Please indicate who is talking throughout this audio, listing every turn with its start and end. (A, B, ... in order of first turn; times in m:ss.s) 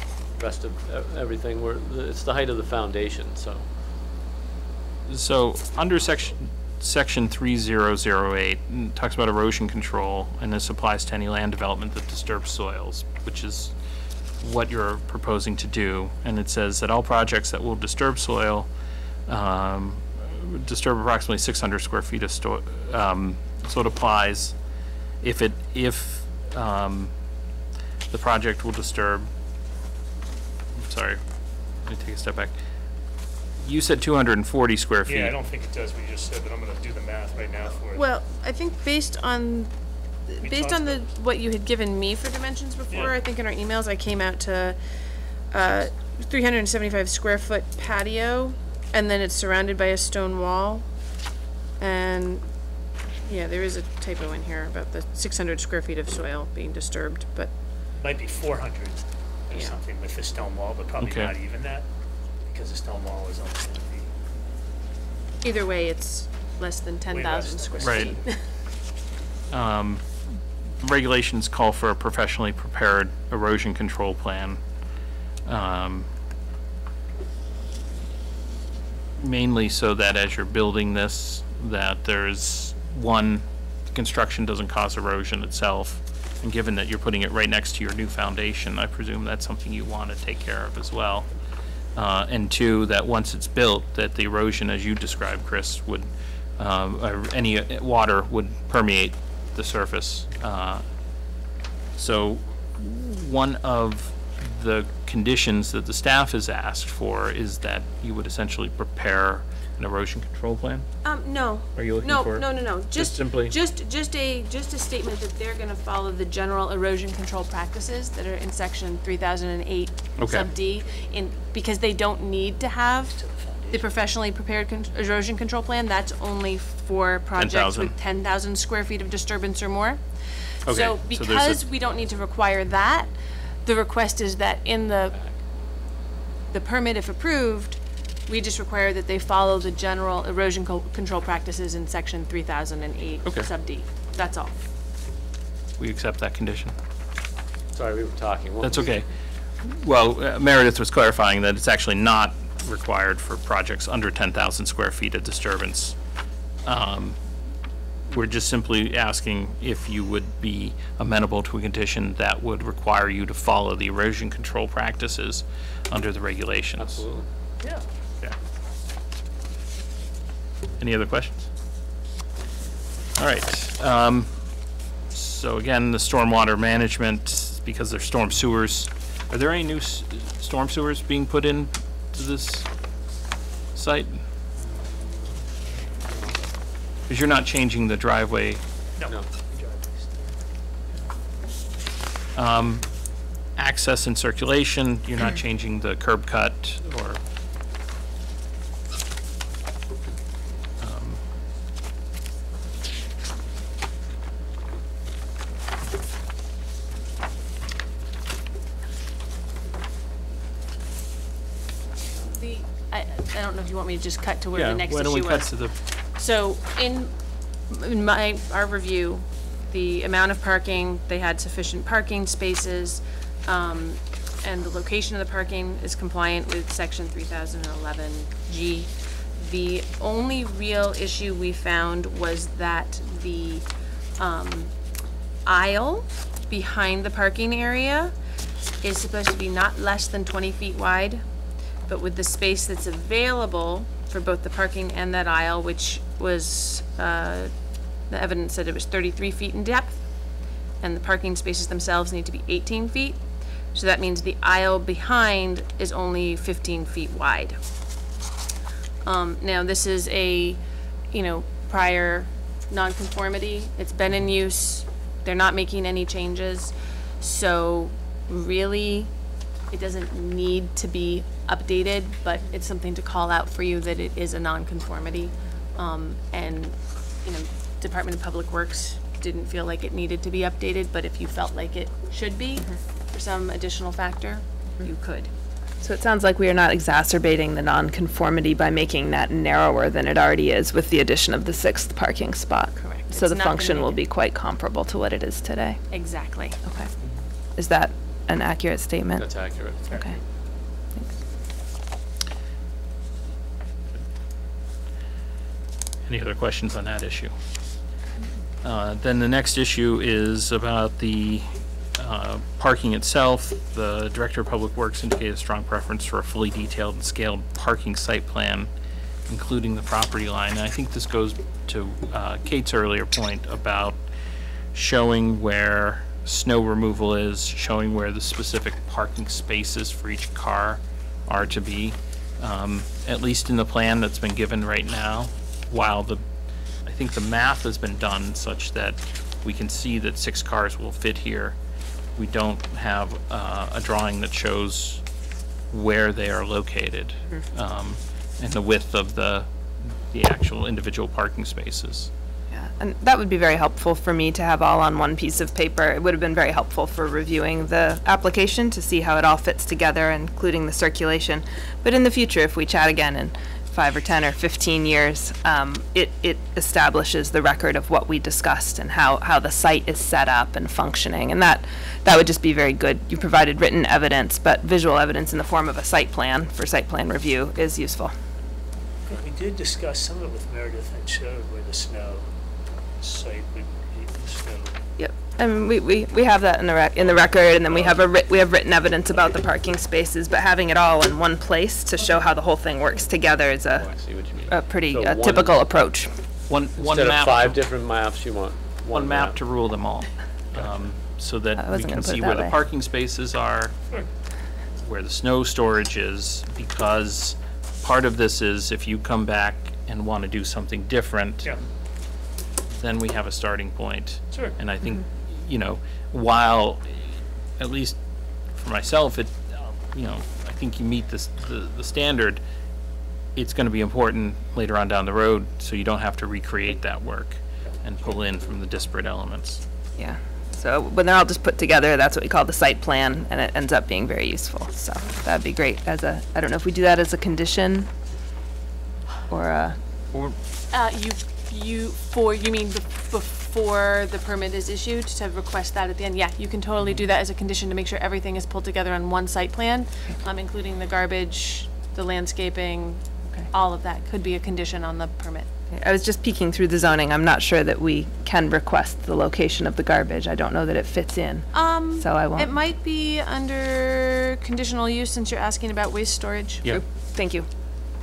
0:00.4-0:03.7 A
0:05.1-0:13.7 B
0:14.4-0:18.7 B
0:19.3-0:24.6 B
0:25.2-0:27.1 B
0:28.1-0:29.3 B
0:30.8-0:31.2 B
0:31.8-0:32.6 B
0:33.6-0:35.4 B
0:35.1-0:38.1 C
0:38.0-0:39.7 D
0:40.3-0:44.8 D
0:40.4-0:41.1 C
0:42.9-0:43.2 C
0:45.5-0:50.9 D
0:51.8-0:52.5 D
0:53.3-0:57.5 D
0:58.0-1:01.9 C
0:59.5-0:59.8 D
1:01.0-1:01.3 B
1:02.4-1:04.1 C
1:05.4-1:08.4 D
1:07.1-1:08.4 C
1:07.8-1:08.1 B
1:09.5-1:10.3 B
1:10.8-1:14.6 B
1:15.5-1:16.1 B
1:19.2-1:31.3 B
1:32.0-1:40.8 B
1:42.0-1:50.9 B
1:51.0-2:10.0 D
1:51.8-1:53.6 B
2:00.2-2:00.5 B
2:00.8-2:01.6 C
2:03.1-2:03.9 C
2:07.4-2:08.0 B
2:10.7-2:11.7 B
2:10.7-2:13.1 D
2:13.6-2:15.2 D
2:16.5-2:24.6 D
2:25.8-2:26.7 B
2:27.7-2:28.9 A
2:28.6-2:29.1 B
2:29.6-2:36.0 B
2:36.6-2:37.2 B
2:38.1-2:47.1 B
2:46.8-2:47.3 A
2:50.8-2:51.4 B
2:53.2-2:54.4 B
2:55.1-3:02.7 B
3:03.8-3:04.2 B
3:07.1-3:08.6 B
3:09.0-3:10.3 C
3:12.4-3:12.9 B
3:13.6-3:17.2 B
3:20.8-3:21.2 B
3:32.3-3:35.6 D
3:34.5-3:35.8 B
3:36.1-3:37.1 D
3:37.7-3:53.6 D
3:54.2-3:54.7 D
3:55.5-3:58.1 D
3:58.8-4:01.2 D
4:01.9-4:07.5 D
4:08.1-4:10.0 D
4:10.8-4:13.2 D
4:13.7-4:17.6 D
4:19.0-4:20.6 D
4:21.1-4:29.1 D
4:29.7-4:45.3 D
4:45.8-4:55.8 E
4:52.8-4:54.0 D
4:55.9-4:56.6 D
4:56.6-4:56.9 E
4:57.6-4:59.3 E
4:59.2-5:00.0 A
4:59.9-5:00.2 E
5:06.1-5:07.3 B
5:08.6-5:18.7 B
5:19.3-5:24.0 B
5:24.7-5:36.2 B
5:36.8-5:41.6 B
5:42.2-5:45.0 B
5:45.7-5:52.1 B
5:52.5-6:18.1 E
6:19.1-6:22.3 C
6:23.0-6:24.8 C
6:25.0-6:34.0 E
6:27.6-6:28.0 A
6:33.7-6:35.6 A
6:34.5-6:36.2 E
6:36.5-6:37.6 B
6:36.8-6:39.4 A
6:38.9-6:44.0 B
6:41.6-6:42.6 E
6:44.8-6:51.6 B
6:52.8-6:57.0 B
6:54.3-6:54.6 C
6:57.6-6:58.0 B
6:58.5-7:02.4 B
7:03.4-7:09.6 B
7:10.0-7:17.9 E
7:19.3-7:19.8 E
7:20.7-7:35.5 D
7:35.7-7:42.6 E
7:41.5-7:46.6 D
7:46.7-7:47.5 E